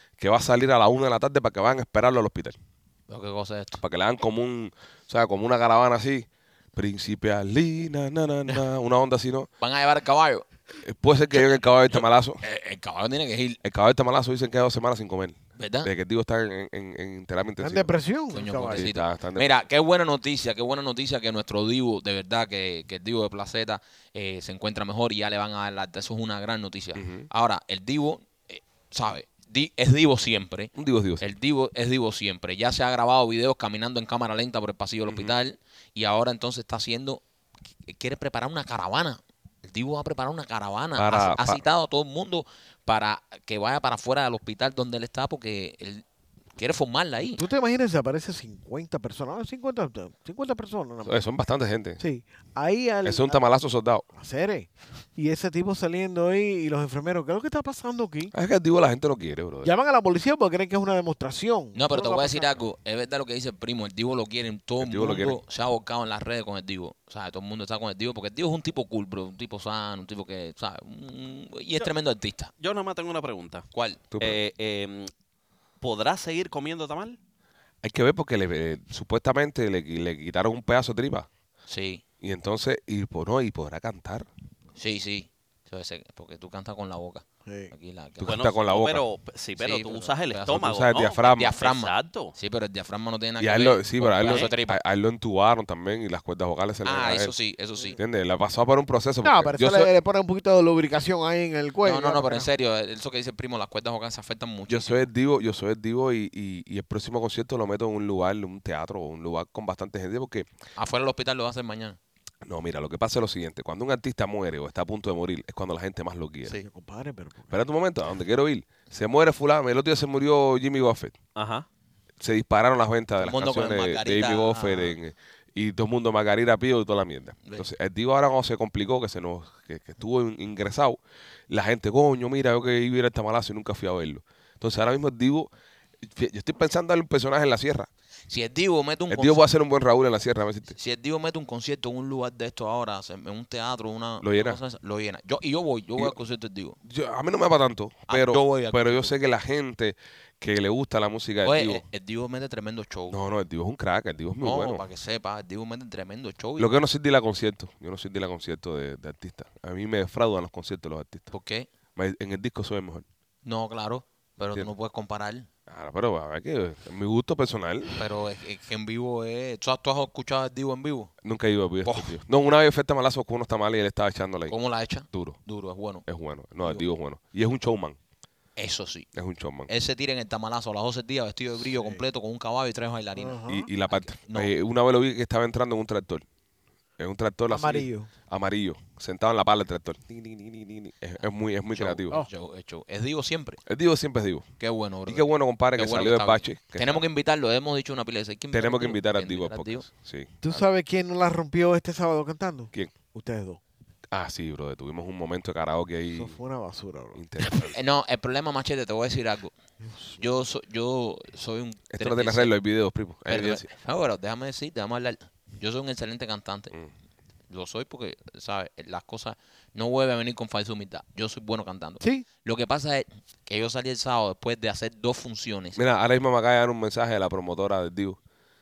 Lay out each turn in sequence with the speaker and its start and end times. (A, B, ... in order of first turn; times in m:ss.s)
0:00.2-0:02.6 A
0:03.1-0:03.8 B
0:03.8-0:09.5 A
0:09.6-0:10.5 B
0:10.8-0:12.4 A
0:11.9-0:13.6 B
0:13.6-0:17.9 A
0:15.6-0:15.9 B
0:17.6-0:18.9 C
0:18.3-0:37.2 B
0:18.7-0:19.5 A
0:27.0-0:27.3 A
0:30.8-0:31.2 A
0:35.1-0:35.3 A
0:37.9-0:46.0 B
0:41.0-0:41.6 A
0:46.6-0:47.4 B
0:47.3-0:51.2 C
0:51.1-0:52.0 A
0:52.0-0:53.4 C
0:53.0-0:54.1 A
0:54.1-0:58.3 C
0:58.3-0:59.7 A
0:59.6-1:02.6 C
1:01.8-1:12.5 B
1:04.8-1:05.4 A
1:12.6-1:13.7 D
1:13.7-1:14.0 B
1:14.1-1:14.4 A
1:14.2-1:15.1 D
1:15.8-1:17.2 D
1:17.8-1:21.3 A
1:21.7-1:22.0 B
1:22.2-1:24.3 A
1:24.8-1:28.4 B
1:27.5-1:27.7 C
1:28.2-1:29.0 A
1:28.2-1:32.3 D
1:29.6-1:34.8 B
1:30.5-1:31.5 A
1:33.4-1:37.3 A
1:34.2-1:34.5 D
1:36.8-1:38.0 B
1:38.0-1:39.9 A
1:39.2-1:42.5 C
1:41.8-1:45.0 B
1:44.7-1:50.5 A
1:50.8-1:52.0 B
1:52.4-1:56.6 A
1:56.5-1:57.6 C
1:57.5-2:01.2 A
2:01.4-2:01.7 D
2:02.2-2:11.0 A
2:03.2-2:05.0 B
2:11.5-2:15.5 A
2:16.1-2:17.9 A
2:18.3-2:19.4 B
2:19.1-2:20.8 A
2:20.8-2:26.8 B
2:24.2-2:24.6 A
2:26.8-2:31.8 A
2:28.1-2:29.1 B
2:31.4-2:33.2 B
2:33.1-2:34.8 A
2:34.4-2:36.7 B
2:36.6-2:41.3 A
2:41.3-2:41.7 B
2:42.0-2:43.0 A
2:43.4-2:45.5 B
2:45.7-2:48.0 A
2:47.9-2:51.1 B
2:51.2-2:54.5 A
2:51.8-2:52.2 B
2:54.5-2:56.0 B
2:55.1-2:55.4 A
2:56.1-2:58.0 A
2:58.6-2:59.1 B
2:59.2-2:59.7 A
2:59.7-3:04.5 B
3:01.6-3:02.0 C
3:03.2-3:03.7 C
3:03.5-3:06.2 A
3:07.0-3:12.2 A
3:07.5-3:08.1 C
3:11.7-3:13.6 B
3:13.7-3:14.4 A
3:14.6-3:19.8 B
3:15.1-3:17.0 A
3:18.5-3:20.6 A
3:20.4-3:23.6 C
3:24.1-3:26.4 A
3:26.2-3:27.2 C
3:27.2-3:27.8 A
3:27.7-3:29.5 B
3:29.9-3:30.2 C
3:30.2-3:32.5 B
3:31.9-3:33.7 A
3:33.3-3:36.7 B
3:37.5-3:45.8 B
3:42.0-3:42.3 C
3:45.8-3:48.2 A